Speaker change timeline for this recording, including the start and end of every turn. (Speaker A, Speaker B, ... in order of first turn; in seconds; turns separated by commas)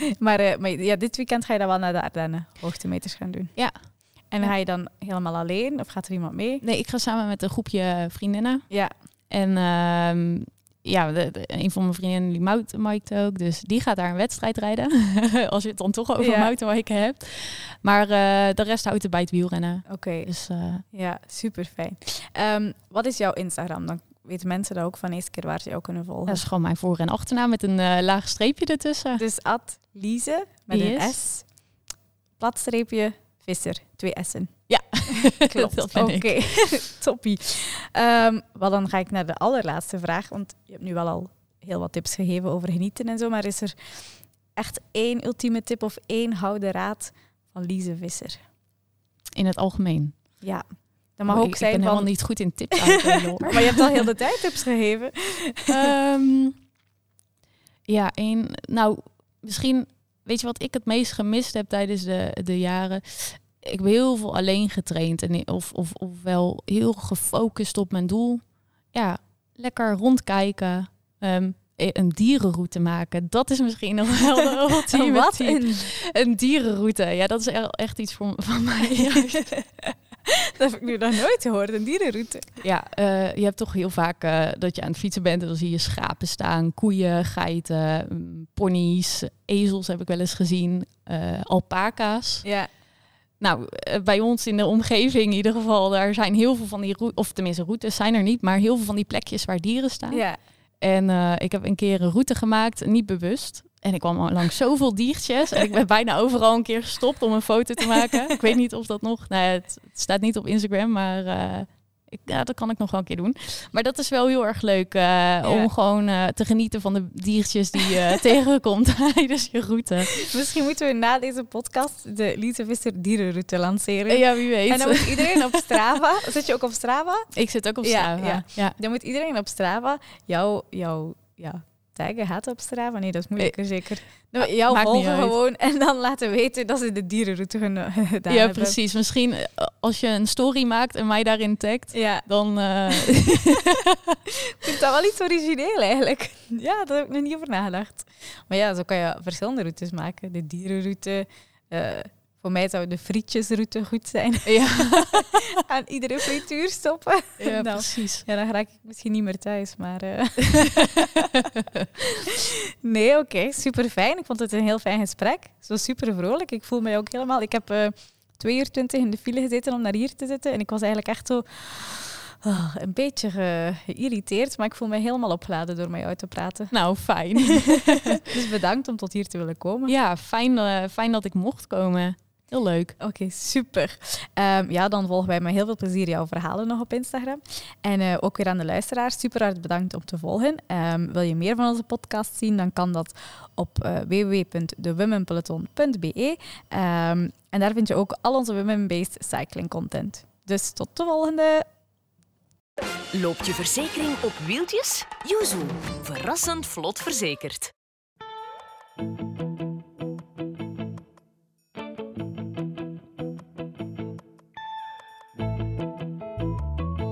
Speaker A: 0.2-6.6, Speaker B: 3.5-4.5, Speaker B: 6.6-20.8, Speaker A: 8.7-8.9, Speaker A: 16.2-16.5, Speaker A: 19.9-26.4, Speaker B: 26.3-29.2, Speaker A: 29.2-31.8, Speaker B: 30.7-31.2, Speaker A: 32.4-48.4, Speaker B: 34.7-36.8, Speaker B: 49.4-50.4, Speaker A: 50.4-55.9, Speaker B: 51.3-53.8, Speaker B: 55.7-56.6, Speaker B: 57.9-79.6, Speaker A: 74.9-75.9, Speaker A: 79.5-82.6, Speaker B: 82.6-92.5, Speaker A: 92.4-92.7, Speaker B: 93.4-120.3, Speaker A: 100.1-100.4, Speaker A: 115.4-115.7, Speaker A: 120.2-138.8, Speaker B: 124.1-125.8, Speaker B: 127.3-128.8, Speaker B: 133.4-135.4, Speaker B: 138.3-144.2, Speaker A: 141.9-142.3, Speaker A: 144.6-161.4, Speaker B: 154.5-155.3, Speaker B: 157.4-158.3, Speaker A: 162.2-176.7, Speaker B: 176.7-178.2, Speaker A: 178.2-179.9, Speaker B: 179.9-183.0, Speaker A: 183.0-201.7, Speaker C: 203.1-207.7